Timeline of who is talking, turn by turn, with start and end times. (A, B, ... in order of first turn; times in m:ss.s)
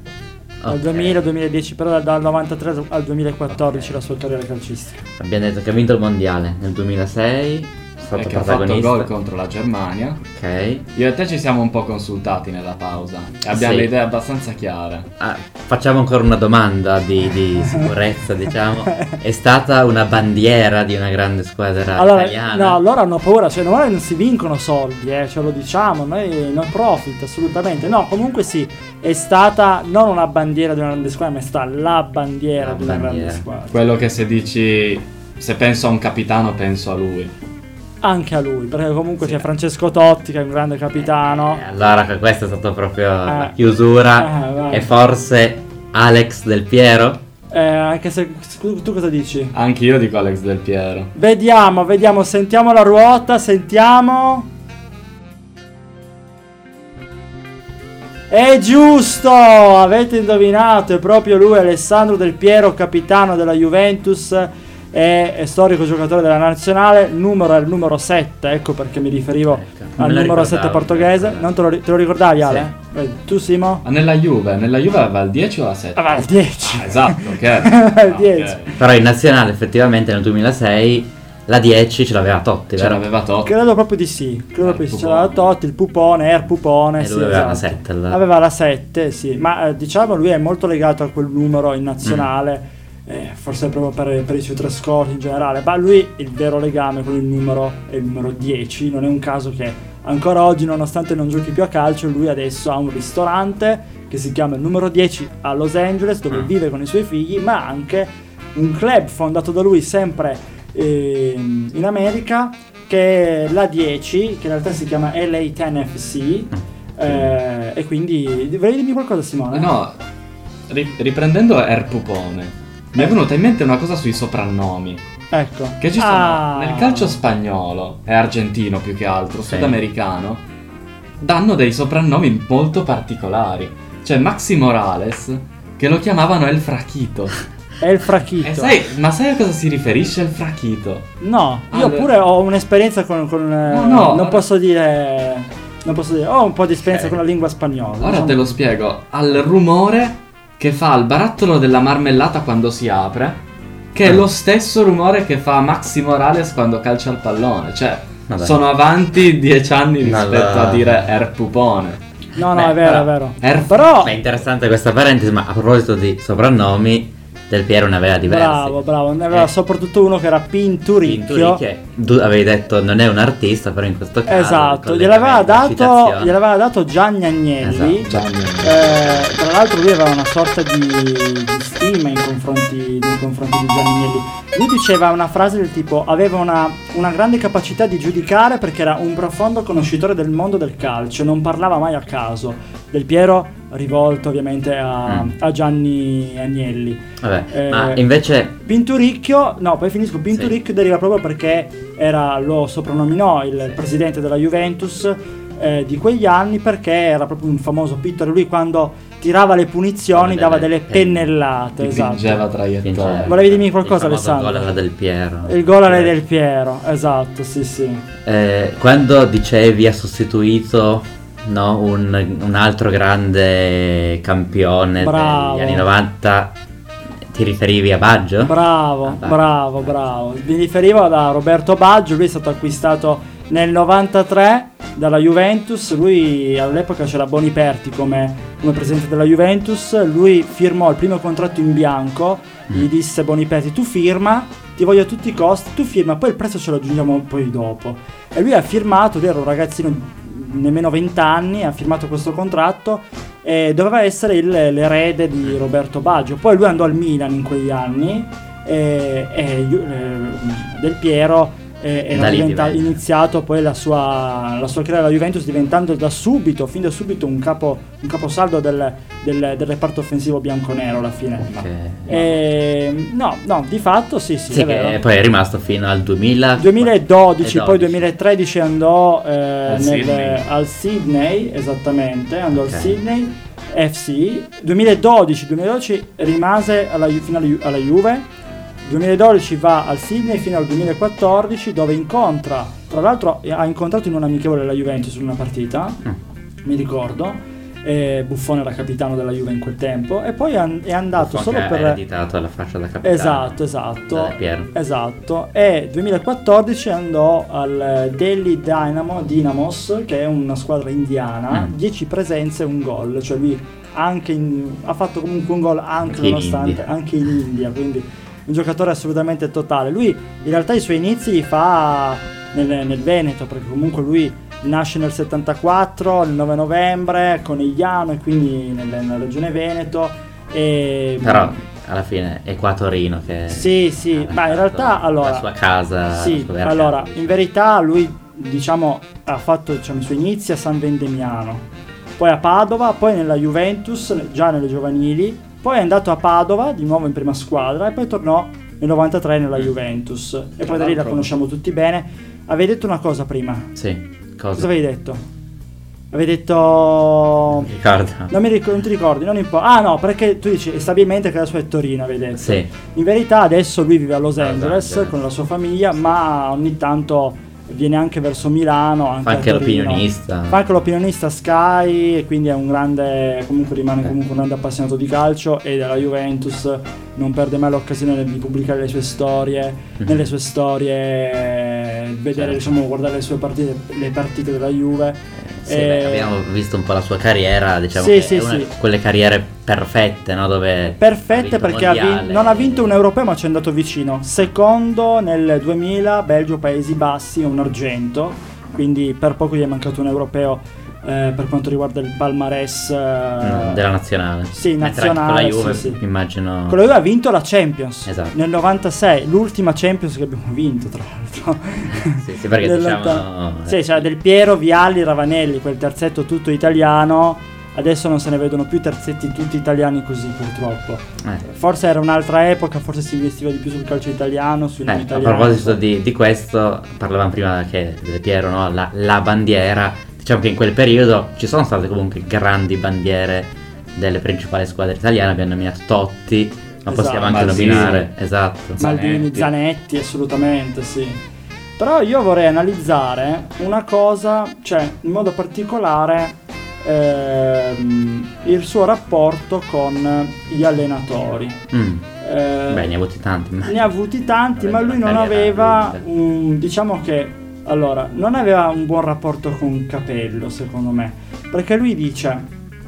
0:00.6-0:01.2 A
0:00.7-0:05.0 B
0:03.5-0:04.0 A
0:05.2-0:09.1 A
0:08.1-0:10.2 C
0:10.3-0:10.9 A
0:10.9-0:15.1 C
0:13.5-0:13.9 A
0:15.2-0:22.8 A
0:17.6-0:17.9 B
0:18.9-0:19.2 B
0:21.9-0:33.8 B
0:32.6-0:33.4 A
0:33.7-0:37.3 C
0:38.0-0:41.6 B
0:39.2-0:39.4 A
0:41.2-0:47.2 A
0:43.2-0:43.6 B
0:44.1-0:44.9 B
0:47.5-0:49.5 B
0:49.5-0:51.1 C
0:51.1-0:54.5 B
0:58.3-1:13.8 B
1:09.5-1:11.5 A
1:12.4-1:12.7 A
1:13.8-1:18.7 C
1:16.0-1:18.7 B
1:18.8-1:23.0 A
1:22.8-1:23.5 C
1:23.4-1:59.7 B
1:24.6-1:25.4 C
1:27.0-1:28.2 A
1:59.5-2:00.0 C
2:00.7-2:05.0 C
2:05.3-2:07.2 B
2:05.8-2:10.4 C
2:09.5-2:09.8 A
2:11.2-2:17.4 C
2:17.8-2:18.8 B
2:18.4-2:21.1 C
2:21.2-2:28.4 B
2:21.7-2:22.1 C
2:23.7-2:24.4 C
2:28.0-2:33.4 C
2:33.9-2:42.0 C
2:38.3-2:38.6 A
2:40.0-2:41.0 A
2:42.4-2:44.2 B
2:42.5-2:43.1 A
2:43.4-2:43.8 C
2:44.0-2:49.5 A
2:48.2-2:51.6 B
2:51.0-2:56.3 A
2:54.3-3:32.4 B
2:57.6-2:59.4 A
2:58.0-2:58.9 C
3:15.0-3:15.3 A
3:17.2-3:18.5 A
3:30.1-3:31.3 A
3:31.8-3:33.3 C
3:32.8-3:36.2 A
3:33.2-3:34.7 B
3:35.4-3:38.0 B
3:38.2-3:46.6 A
3:45.0-3:45.9 B
3:47.3-3:49.9 A
3:48.4-4:35.0 B
4:22.1-4:23.0 A
4:31.5-4:32.2 A
4:34.5-4:38.1 A
4:36.6-4:48.3 B
4:39.6-4:40.4 C
4:42.5-4:43.0 A
4:48.8-4:56.0 B
4:56.6-5:02.0 B
5:01.2-5:04.7 A
5:03.0-5:31.5 B
5:16.0-5:16.9 A
5:31.2-5:37.4 A
5:33.5-5:35.5 B
5:36.1-5:41.7 B
5:42.2-5:53.7 B
5:53.7-5:54.7 A
5:54.6-5:55.2 B
5:56.1-5:57.7 B
5:57.6-5:58.3 A
5:58.3-6:26.4 B
6:02.4-6:02.7 A
6:04.4-6:05.2 A
6:09.2-6:10.6 A
6:22.3-6:22.8 A
6:25.4-6:33.0 A
6:27.9-6:28.7 B
6:31.0-6:43.8 B
6:43.4-6:46.9 A
6:44.5-6:46.0 B
6:46.7-7:05.8 B
6:48.0-6:48.3 A
6:51.9-6:54.0 A
7:04.9-7:19.1 A
7:16.9-7:18.0 B
7:17.2-7:18.1 C
7:18.8-7:21.2 B
7:18.8-7:19.4 C
7:21.8-7:31.6 B
7:31.7-7:32.1 A
7:32.2-7:32.9 B
7:32.7-7:33.9 A
7:33.6-7:42.5 B
7:34.6-7:36.0 A